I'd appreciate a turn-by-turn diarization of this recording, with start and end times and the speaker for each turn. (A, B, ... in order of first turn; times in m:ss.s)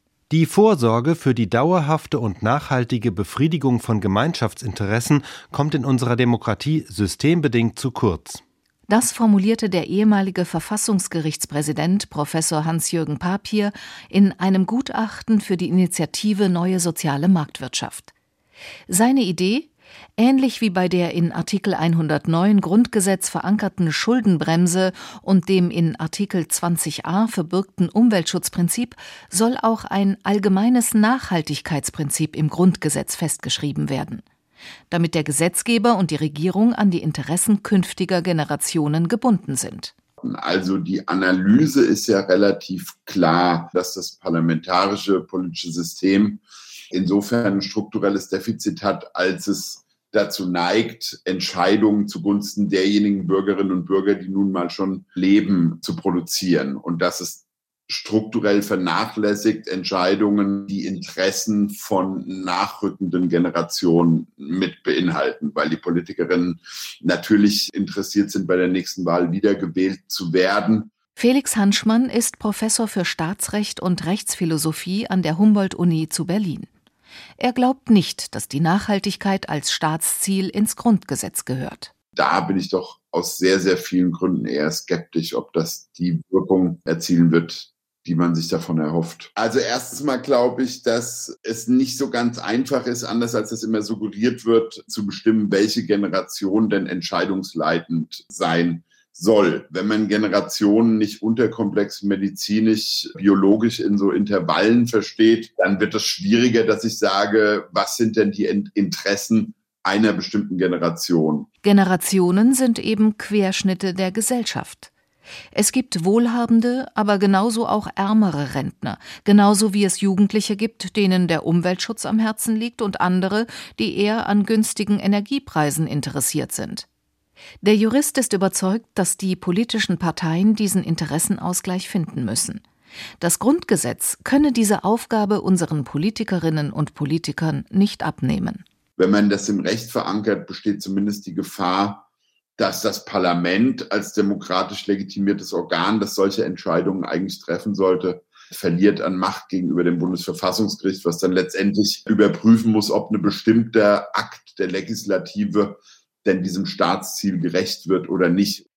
0:00.3-0:08.4 A
0:08.9-0:18.1 B
0:18.9-0:34.2 B
0:34.9-0:39.9 B
0:40.2-1:10.9 C
1:11.2-1:16.7 B
1:17.4-1:21.9 B
1:22.1-1:51.5 C
1:51.6-1:54.9 B
1:55.5-2:06.8 B
2:07.6-2:12.6 B
2:13.2-2:18.6 B
2:19.0-2:22.0 C
2:22.6-2:38.6 C